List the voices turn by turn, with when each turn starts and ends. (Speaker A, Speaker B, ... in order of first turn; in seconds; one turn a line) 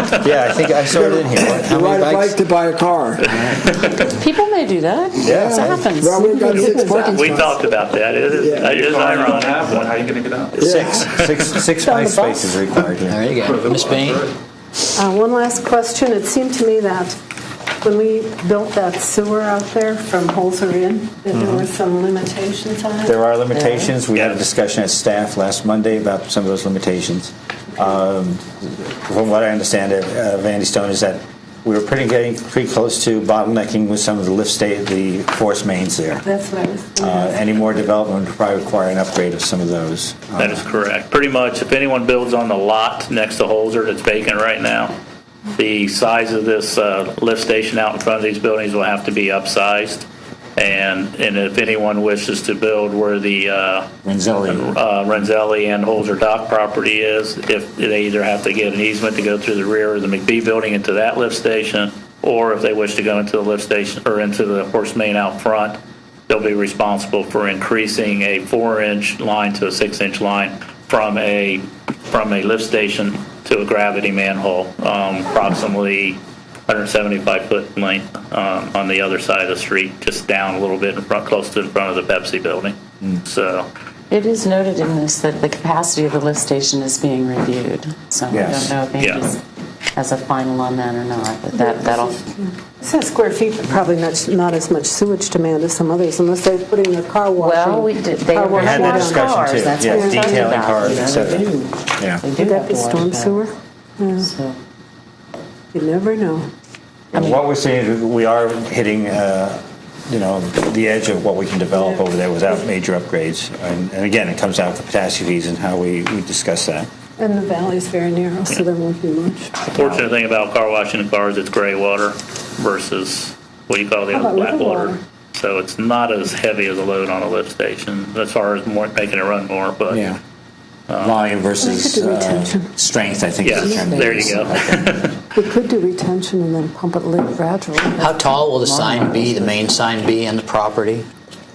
Speaker A: 0.2-2.4
Speaker B: 0.9-3.4
Speaker C: 4.0-6.5
Speaker B: 5.2-7.6
Speaker A: 5.2-5.9
Speaker D: 6.2-7.4
Speaker E: 6.6-10.1
Speaker B: 8.3-8.8
Speaker F: 8.6-10.6
Speaker B: 10.6-11.1
Speaker A: 10.6-13.2
Speaker D: 11.8-12.7
Speaker G: 13.1-14.3
Speaker F: 13.5-14.3
Speaker D: 14.9-17.2
Speaker D: 17.8-23.2
Speaker A: 21.3-21.7
Speaker A: 23.1-36.3
Speaker C: 23.5-23.9
Speaker E: 24.1-24.4
Speaker D: 36.2-37.4
Speaker A: 37.0-40.6
Speaker E: 40.4-44.9
Speaker E: 45.6-50.0
Speaker E: 50.6-53.9
Speaker A: 54.0-54.8
Speaker E: 54.5-83.7
Speaker C: 84.1-89.4
Speaker A: 88.3-88.8
Speaker E: 89.0-89.2
Speaker C: 90.0-92.2
Speaker D: 91.5-99.3
Speaker C: 97.4-103.5
Speaker A: 98.5-102.2
Speaker D: 99.8-100.6
Speaker D: 102.4-104.3
Speaker C: 104.2-104.6
Speaker D: 105.7-106.5
Speaker A: 107.1-116.9
Speaker C: 107.1-107.4
Speaker D: 111.8-112.0
Speaker D: 117.2-119.6
Speaker E: 119.7-130.1
Speaker A: 119.8-120.1
Speaker D: 124.1-125.0
Speaker A: 129.9-130.2
Speaker E: 130.9-131.2
Speaker A: 131.0-134.5
Speaker D: 131.6-132.7
Speaker E: 133.4-135.2
Speaker D: 133.6-134.5
Speaker C: 134.0-134.4
Speaker D: 135.3-138.4
Speaker G: 138.0-141.1
Speaker C: 138.7-139.2